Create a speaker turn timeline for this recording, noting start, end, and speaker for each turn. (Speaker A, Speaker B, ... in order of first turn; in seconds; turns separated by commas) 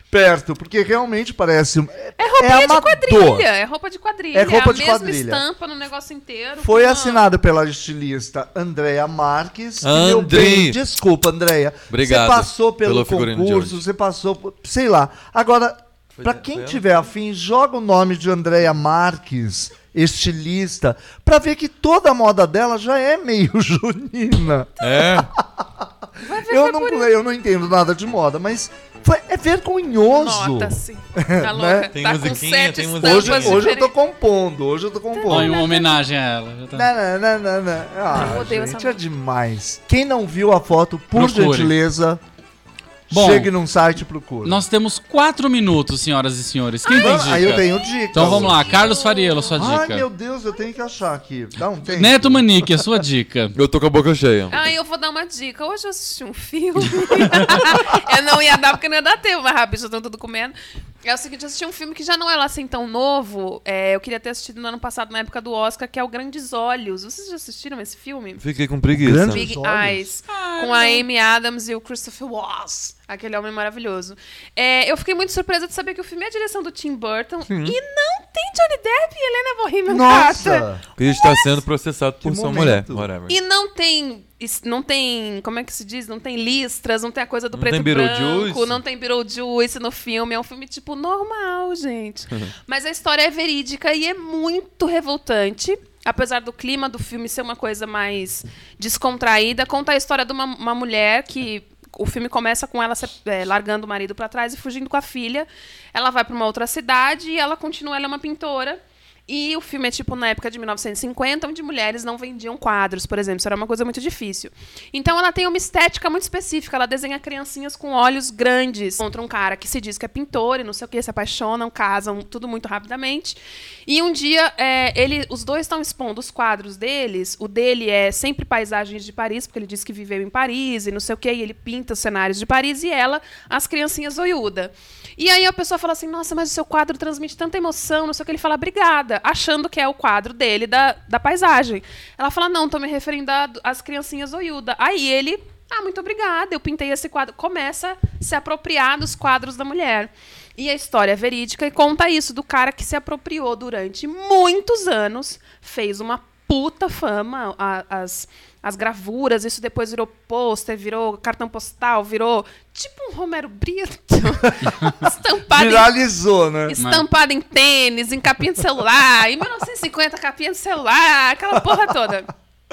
Speaker A: 0.1-3.5, Speaker B: 2.2-7.2, Speaker A: 4.3-5.5, Speaker A: 6.6-24.7, Speaker C: 9.8-10.8, Speaker C: 11.9-13.8, Speaker C: 16.2-16.9, Speaker B: 24.8-25.1, Speaker C: 24.8-25.3, Speaker A: 25.4-25.9, Speaker B: 26.2-27.1, Speaker A: 26.4-31.9, Speaker B: 30.1-33.9, Speaker C: 31.9-33.7, Speaker A: 33.0-35.6, Speaker B: 35.1-36.0, Speaker D: 35.3-36.9, Speaker A: 36.7-42.2, Speaker B: 38.1-39.0, Speaker D: 41.1-41.8, Speaker A: 43.1-44.6, Speaker D: 43.1-43.5, Speaker D: 44.5-50.1, Speaker A: 47.0-48.9, Speaker B: 48.5-49.6, Speaker A: 49.6-52.5, Speaker D: 51.9-53.5, Speaker C: 53.5-54.5, Speaker B: 54.5-68.4, Speaker C: 68.4-69.5, Speaker A: 68.9-70.1, Speaker B: 69.3-80.6, Speaker D: 70.3-71.0, Speaker C: 77.5-77.8, Speaker A: 79.9-80.8, Speaker C: 81.0-83.4, Speaker B: 81.2-81.6, Speaker A: 82.2-83.1, Speaker B: 83.3-165.9, Speaker C: 87.5-88.8, Speaker D: 164.6-164.9, Speaker A: 165.5-166.8, Speaker B: 166.7-172.3, Speaker D: 166.8-167.1